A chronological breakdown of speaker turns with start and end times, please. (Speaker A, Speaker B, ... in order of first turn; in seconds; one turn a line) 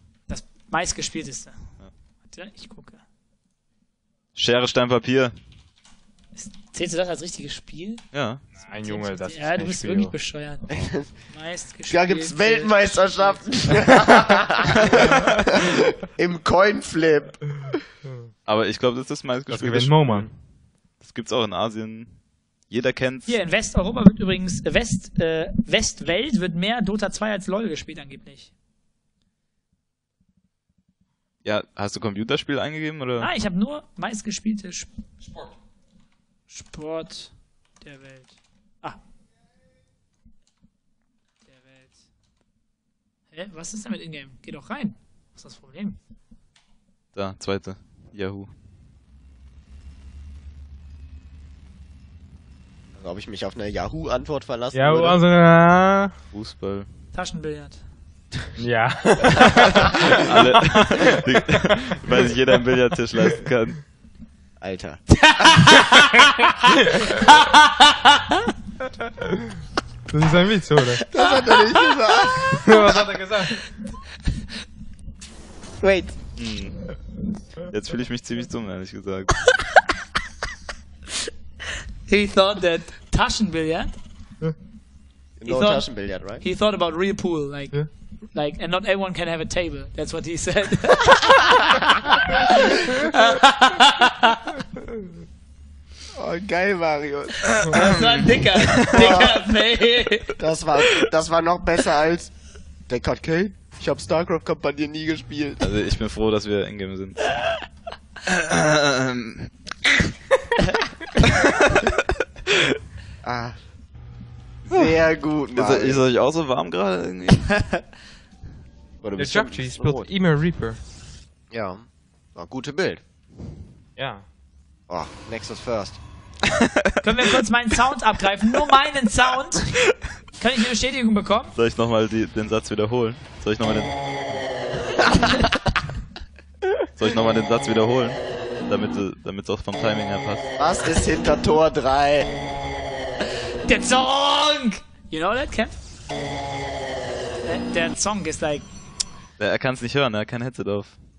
Speaker A: 0.3-3.0
Speaker B: 4.3-5.3
Speaker A: 6.3-13.7
Speaker B: 8.1-8.4
Speaker C: 8.6-10.2
Speaker D: 10.8-11.1
Speaker D: 11.7-17.8
Speaker B: 18.4-20.4
Speaker C: 19.5-20.3
Speaker B: 20.9-23.4
Speaker A: 23.3-28.5
Speaker B: 31.4-33.3
Speaker A: 33.2-34.9
Speaker A: 36.5-39.0
Speaker A: 41.5-42.0
Speaker A: 43.3-46.0
Speaker B: 47.1-48.5
Speaker D: 53.0-55.2
Speaker C: 54.7-56.2
Speaker B: 56.3-56.9
Speaker A: 57.1-57.8
Speaker C: 58.6-60.0
Speaker B: 59.9-63.9
Speaker D: 64.6-65.8
Speaker A: 65.3-66.5
Speaker C: 70.1-71.0
Speaker D: 71.1-72.5
Speaker C: 72.5-73.5
Speaker D: 75.8-76.2
Speaker B: 76.4-77.0
Speaker B: 77.7-79.5
Speaker A: 82.0-84.0
Speaker D: 85.4-86.4
Speaker A: 85.5-91.4
Speaker A: 92.3-94.5
Speaker D: 96.2-97.7
Speaker A: 97.6-100.3
Speaker D: 98.9-99.4
Speaker D: 100.4-102.3
Speaker D: 102.9-105.7
Speaker B: 105.6-107.3
Speaker B: 108.2-109.5
Speaker D: 113.2-113.6
Speaker D: 114.7-116.0
Speaker B: 114.7-115.0
Speaker B: 115.5-117.8
Speaker D: 119.0-120.1
Speaker C: 119.2-120.8
Speaker D: 121.5-123.0
Speaker C: 124.0-124.3
Speaker D: 124.9-126.0
Speaker A: 127.0-131.5
Speaker B: 131.6-134.0
Speaker B: 136.9-140.5
Speaker D: 140.6-142.3
Speaker A: 143.6-145.8
Speaker A: 147.4-148.7
Speaker B: 149.4-151.0